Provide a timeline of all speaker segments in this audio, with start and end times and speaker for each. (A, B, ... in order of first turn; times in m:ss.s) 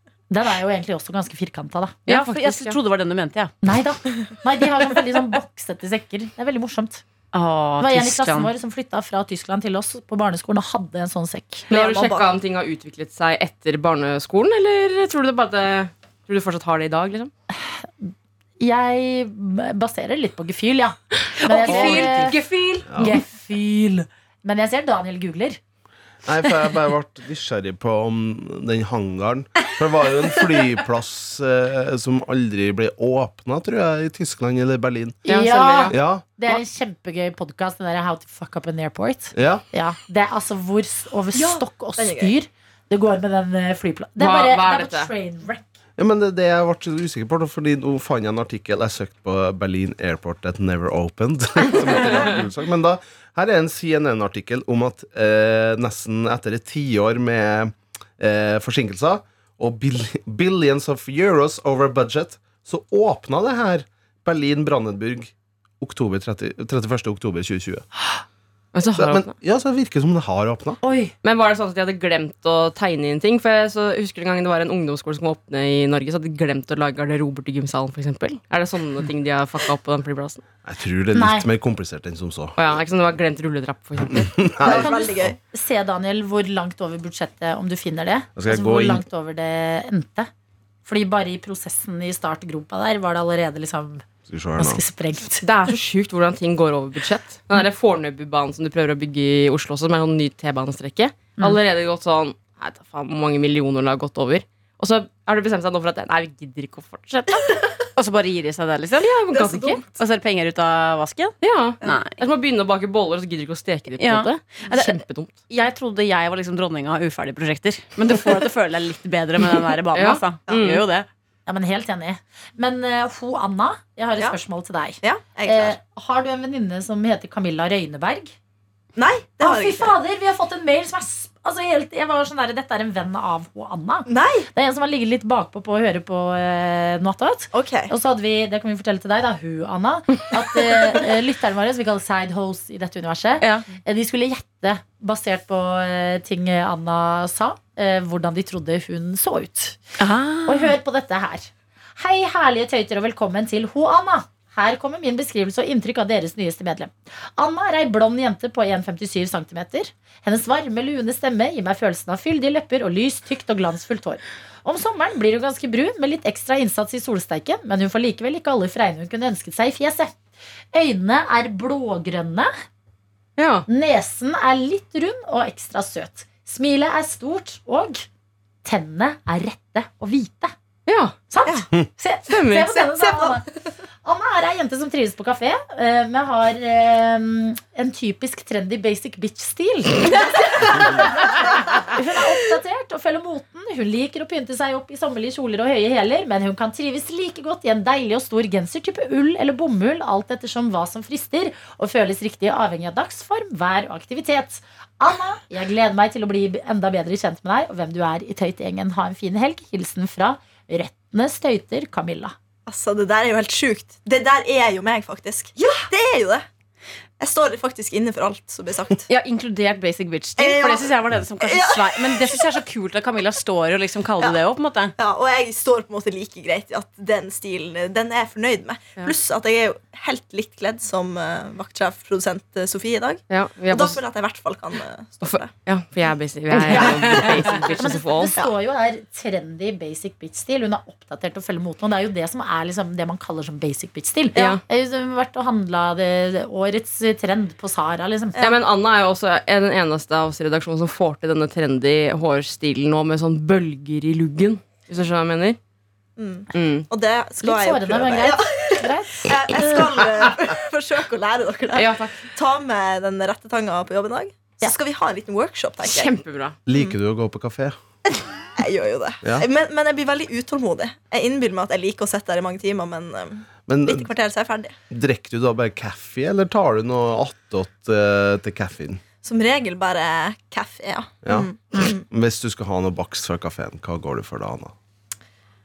0:00.3-0:02.1 A
0:02.1-0:03.5 B
0:02.1-0:02.8 C
0:03.6-0:07.0 A
0:07.3-0:08.5 B
0:07.8-0:11.7 A
0:11.7-0:12.3 D
0:11.7-0:17.3 C
0:17.5-0:22.4 A
0:21.4-0:23.1 B
0:21.6-0:22.3 C
0:22.9-0:23.2 E
0:22.9-0:25.6 A
0:26.2-0:35.2 E
0:35.2-0:36.0 C
0:35.2-0:45.6 A
0:35.9-0:36.2 E
0:39.3-0:39.6 E
0:41.3-0:42.3 D
0:44.2-0:45.1 C
0:46.0-1:07.8 E
1:08.7-1:09.3 C
1:09.0-1:10.8 E
1:10.8-1:11.1 A
1:11.2-1:20.4 C
1:20.6-1:22.6 E
1:21.1-1:21.4 A
1:22.6-1:24.3 C
1:24.0-1:25.3 E
1:24.6-1:25.4 D
1:24.6-1:30.3 A
1:28.4-1:29.0 E
1:30.8-1:34.0 A
1:34.3-1:34.8 E
1:34.6-1:35.5 A
1:35.4-1:47.7 C
1:48.0-1:49.3 B
1:49.0-1:49.8 C
1:49.3-1:50.0 D
1:49.9-1:52.2 B
1:51.4-1:55.4 C
1:54.0-2:01.1 B
1:59.9-2:00.8 C
2:01.5-2:08.3 A
2:05.0-2:05.8 D
2:09.0-2:09.9 D
2:09.4-2:29.8 A
2:14.1-2:14.5 D
2:17.5-2:17.9 D
2:23.4-2:23.7 B
2:30.0-2:30.8 B
2:30.4-2:50.2 A
2:50.7-2:52.5 A
2:53.4-2:53.6 C
2:53.7-2:58.0 A
2:58.6-3:00.5 A
3:00.8-3:01.2 C
3:01.3-3:03.5 A
3:02.3-3:02.7 C
3:02.7-3:03.4 D
3:04.0-3:32.3 A
3:32.6-3:36.5 D
3:37.2-3:39.1 D
3:39.1-3:44.9 B
3:40.4-3:42.6 D
3:45.0-3:55.5 D
3:53.3-3:54.0 C
3:55.2-3:58.3 C
3:56.5-3:57.6 B
3:56.7-3:57.7 D
3:57.8-4:08.4 A
4:04.4-4:04.6 C
4:08.4-4:15.6 C
4:16.2-4:26.1 D
4:16.5-4:16.9 C
4:17.4-4:19.9 A
4:21.7-4:22.3 C
4:25.8-4:26.6 C
4:26.7-4:27.8 E
4:28.6-4:34.7 D
4:33.7-4:34.1 E
4:34.9-4:39.0 E
4:39.2-4:42.0 D
4:41.2-4:44.7 E